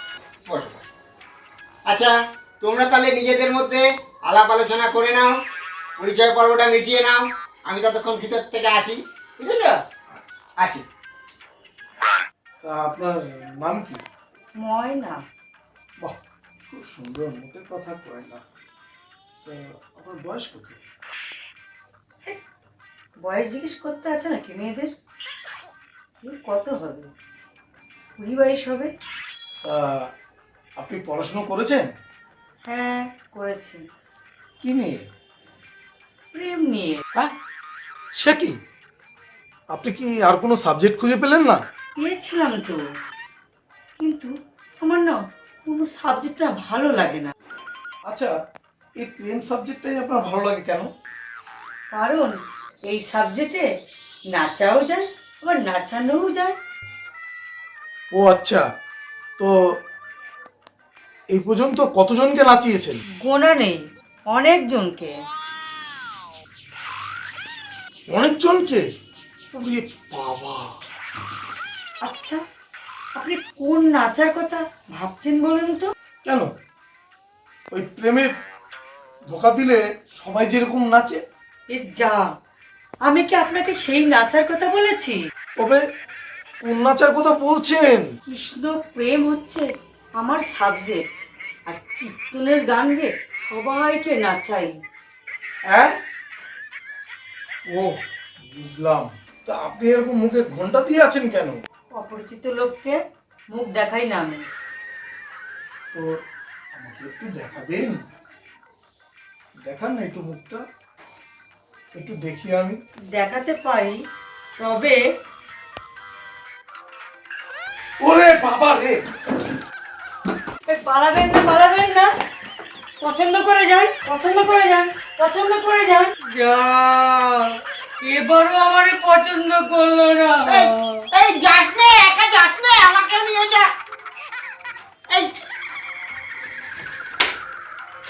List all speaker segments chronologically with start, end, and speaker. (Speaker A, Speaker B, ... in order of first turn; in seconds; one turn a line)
Speaker A: 0.5-0.9
Speaker A: 1.9-5.3
Speaker A: 6.0-9.8
Speaker B: 10.1-10.4
Speaker A: 10.6-10.8
Speaker B: 12.6-14.0
Speaker C: 14.6-15.2
Speaker B: 16.0-18.4
Speaker B: 19.4-20.8
Speaker C: 23.2-24.9
Speaker C: 26.2-27.1
Speaker C: 28.2-28.9
Speaker B: 29.6-30.1
Speaker B: 30.8-31.9
Speaker C: 32.7-33.8
Speaker B: 34.6-35.0
Speaker C: 36.3-37.0
Speaker B: 38.2-38.5
Speaker B: 39.7-41.6
Speaker C: 42.0-42.8
Speaker C: 44.0-47.3
Speaker B: 49.0-50.9
Speaker C: 51.9-52.3
Speaker C: 52.9-53.6
Speaker C: 54.3-56.5
Speaker B: 58.1-58.6
Speaker B: 61.3-63.0
Speaker C: 63.2-65.1
Speaker B: 68.1-68.8
Speaker B: 69.5-70.7
Speaker C: 72.0-72.4
Speaker C: 73.2-75.9
Speaker B: 77.7-78.3
Speaker B: 79.3-81.2
Speaker C: 81.7-82.2
Speaker C: 83.0-85.2
Speaker B: 85.5-85.8
Speaker B: 86.6-88.1
Speaker C: 88.2-89.7
Speaker C: 90.2-91.0
Speaker C: 91.7-94.7
Speaker B: 98.5-101.6
Speaker C: 102.0-103.0
Speaker C: 103.5-104.4
Speaker B: 106.7-108.0
Speaker B: 109.6-110.6
Speaker B: 111.9-112.8
Speaker C: 113.1-114.0
Speaker C: 114.6-115.0
Speaker B: 118.0-119.0
Speaker C: 120.7-122.1
Speaker C: 123.0-131.0
Speaker A: 130.5-133.7
Speaker A: 135.1-135.3